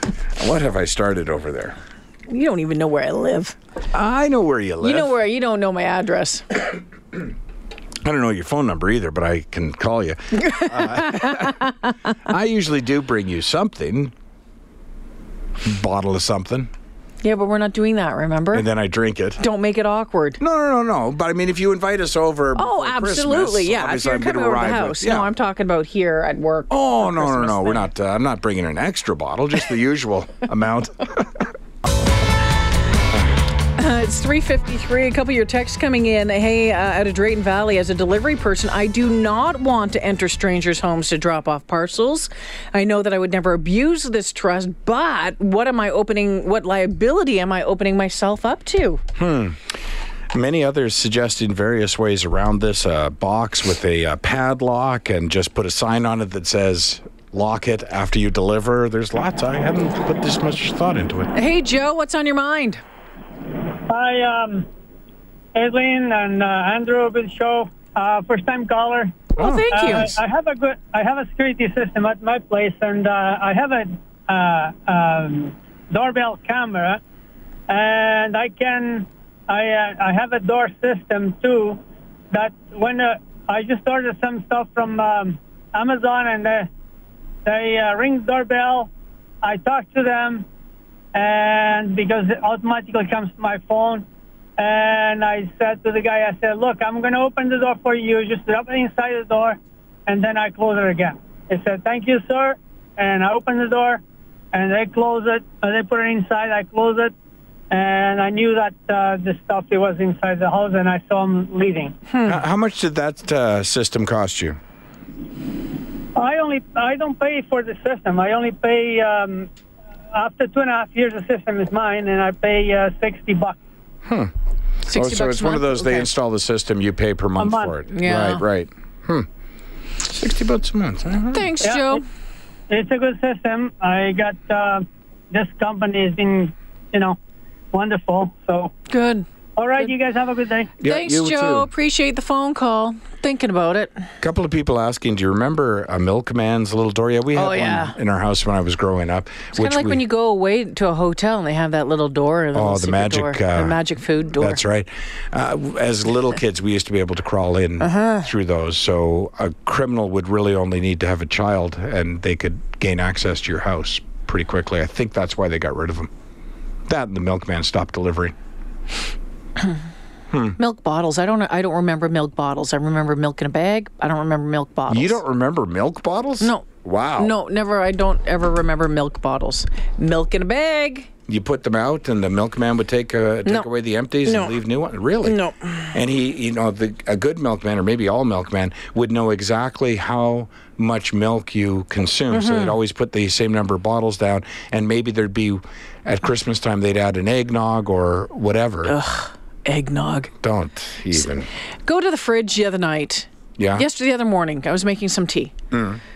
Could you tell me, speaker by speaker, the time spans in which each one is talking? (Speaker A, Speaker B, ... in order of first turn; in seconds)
Speaker A: 0.3-1.8, 3.9-5.1, 8.0-11.6, 12.2-14.1, 15.6-16.7, 18.5-19.4, 20.4-25.3, 26.7-31.5, 49.2-49.8, 50.3-61.3, 69.4-69.7, 112.2-114.6, 124.0-124.3, 124.9-129.3, 130.0-131.5, 140.8-141.7, 144.2-150.0, 152.5-153.8, 154.3-166.1, 166.9-168.3, 170.3-170.6, 174.9-177.3, 181.3-185.4, 185.9-198.9, 200.4-201.5, 203.6-203.8, 205.7-206.0
Speaker B: 2.3-3.6, 4.8-6.5, 10.4-11.9, 17.2-18.6, 19.4-20.4, 22.6-27.9, 33.8-49.0, 61.3-62.8, 69.3-70.1, 124.8-126.1, 127.9-128.4, 131.3-132.0, 138.9-139.3, 140.8-144.1, 147.3-147.9, 149.5-154.6, 157.8-158.2, 170.6-175.2, 176.4-176.7, 177.2-181.1, 184.2-184.6, 185.2-185.9, 192.3-192.8, 198.8-200.3, 201.8-205.5
Speaker C: 63.9-64.7, 65.5-77.0, 77.7-86.7, 87.4-88.9, 89.4-90.5, 91.1-94.0, 94.6-107.1, 107.7-111.9, 116.2-119.5, 120.1-123.6, 127.4-127.7, 131.6-132.0, 132.7-137.2, 137.7-138.7, 139.6-140.7